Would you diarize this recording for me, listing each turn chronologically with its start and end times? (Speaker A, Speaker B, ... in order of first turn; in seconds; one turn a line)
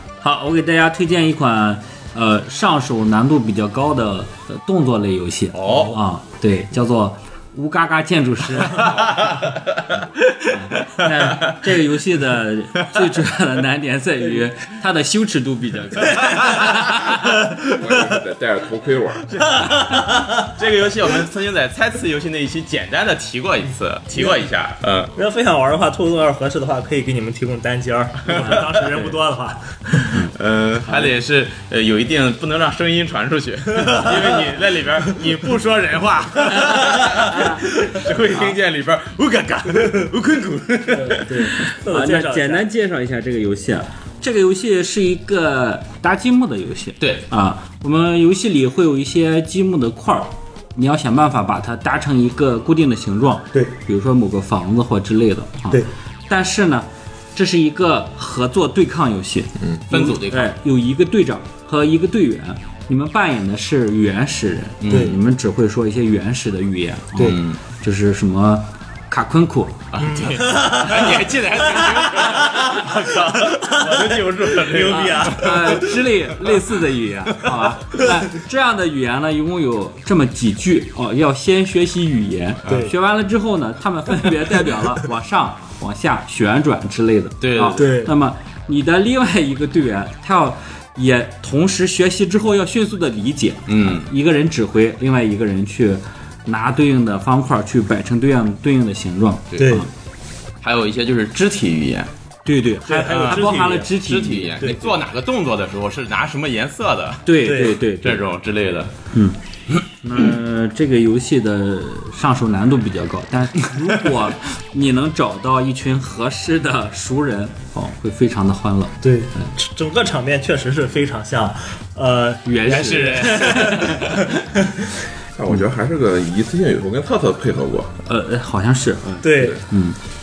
Speaker A: 0.2-8.9
Speaker B: 5.5-6.0
Speaker B: 8.6-11.7
Speaker A: 10.5-17.2
Speaker B: 12.8-13.2
Speaker B: 16.1-17.1
Speaker C: 16.2-16.6
Speaker D: 17.6-19.4
Speaker C: 19.5-20.5
Speaker B: 20.4-25.1
Speaker C: 24.1-24.4
Speaker C: 25.1-29.7
Speaker B: 28.3-29.1
Speaker B: 29.9-41.7
Speaker C: 33.8-34.4
Speaker C: 37.0-38.5
Speaker C: 40.9-42.6
Speaker A: 41.8-69.8
Speaker B: 47.0-47.2
Speaker B: 59.9-60.5
Speaker B: 64.8-65.2
Speaker C: 64.9-65.2
Speaker B: 67.2-67.6
Speaker B: 69.9-75.9
Speaker C: 70.0-75.9
Speaker A: 75.0-99.9
Speaker C: 82.7-82.9
Speaker C: 84.3-84.7
Speaker B: 87.4-88.0
Speaker C: 87.7-88.1
Speaker B: 93.7-94.1
Speaker C: 99.6-99.9
Speaker B: 100.6-102.1
Speaker A: 102.4-104.6
Speaker C: 102.8-103.9
Speaker B: 103.1-108.9
Speaker C: 104.6-104.9
Speaker A: 107.2-108.2
Speaker C: 107.4-107.8
Speaker A: 109.9-119.5
Speaker C: 119.0-124.8
Speaker A: 122.4-124.0
Speaker B: 122.6-124.3
Speaker D: 125.3-127.9
Speaker A: 128.1-129.9
Speaker C: 129.2-129.6